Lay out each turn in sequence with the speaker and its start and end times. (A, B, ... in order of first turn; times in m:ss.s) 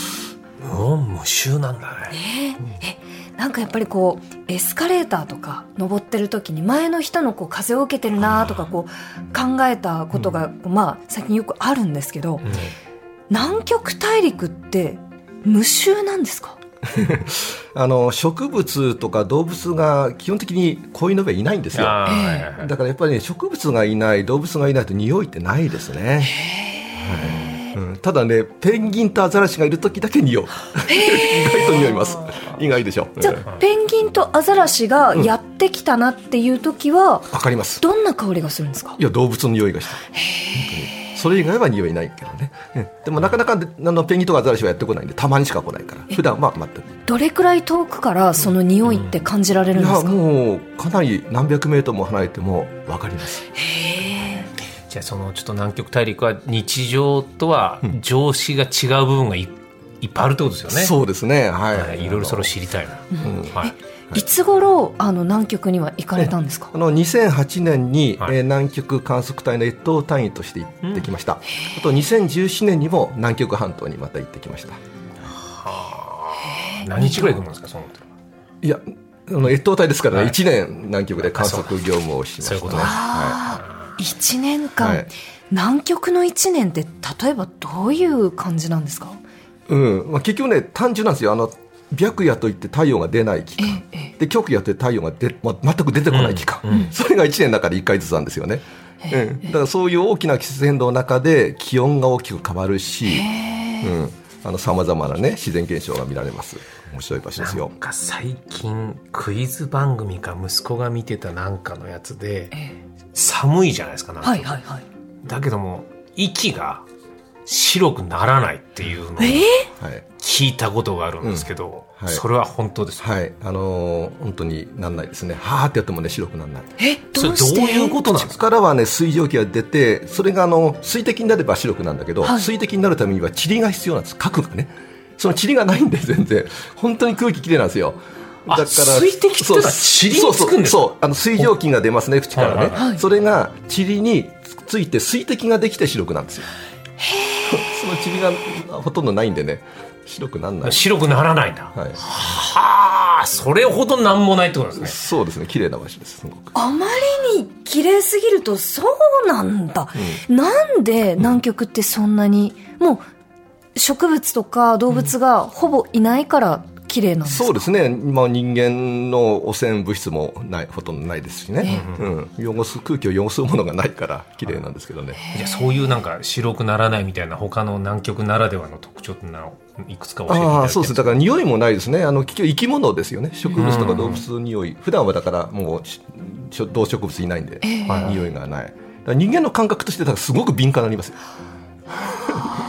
0:00.6-0:02.2 A
0:02.1-0:12.5 B
0:12.4-0:12.7 A
0:13.3-0:16.6 B
0:16.9-0:26.4 C
0:21.7-0:22.7 A
0:22.0-0:22.5 B
0:26.4-0:27.8 B
0:27.0-0:33.4 C
0:30.8-0:31.8 B
0:33.2-0:39.0 B
0:37.3-0:37.8 C
0:39.0-0:46.9 C
0:40.1-0:41.1 B
0:47.1-0:50.2 B
0:49.7-0:53.4 C
0:53.5-0:54.5 B
0:54.9-1:00.9 A
1:00.7-1:02.5 C
1:01.7-1:03.7 A
1:03.1-1:06.7 B
1:03.2-1:03.6 C
1:06.2-1:14.8 C
1:15.4-1:18.0 A
1:16.4-1:17.4 B
1:18.6-1:23.4 C
1:20.1-1:20.4 A
1:21.3-1:21.8 A
1:22.4-1:24.0 A
1:22.7-1:29.2 B
1:24.8-1:25.1 C
1:29.7-1:43.3 C
1:33.6-1:34.1 B
1:36.1-1:36.9 A
1:43.1-1:43.9 B
1:43.8-1:47.7 C
1:47.4-1:52.5 A
1:53.1-1:54.5 A
1:54.2-1:54.8 B
1:55.2-1:56.8 A
1:57.4-1:59.5 A
1:59.2-1:59.7 B
1:59.8-2:00.0 C
2:00.2-2:03.0 A
2:01.2-2:01.5 C
2:02.0-2:02.2 C
2:03.0-2:06.7 C
2:06.8-2:08.0 B
2:07.2-2:08.4 A
2:08.0-2:26.5 C
2:18.5-2:21.5 A
2:22.3-2:22.9 A
2:22.8-2:23.0 B
2:27.0-2:27.6 B
2:27.5-2:30.9 C
2:30.6-2:34.9 A
2:31.7-2:32.0 C
2:34.8-2:36.5 C
2:36.5-2:43.0 B
2:40.0-2:40.2 C
2:43.7-2:47.7 B
2:47.2-2:55.2 C
2:51.6-2:51.9 B
2:51.7-2:52.1 A
2:55.2-2:55.8 B
2:55.3-3:01.2 A
3:00.3-3:11.2 C
3:03.5-3:04.2 A
3:07.6-3:08.2 B
3:12.0-3:12.5 C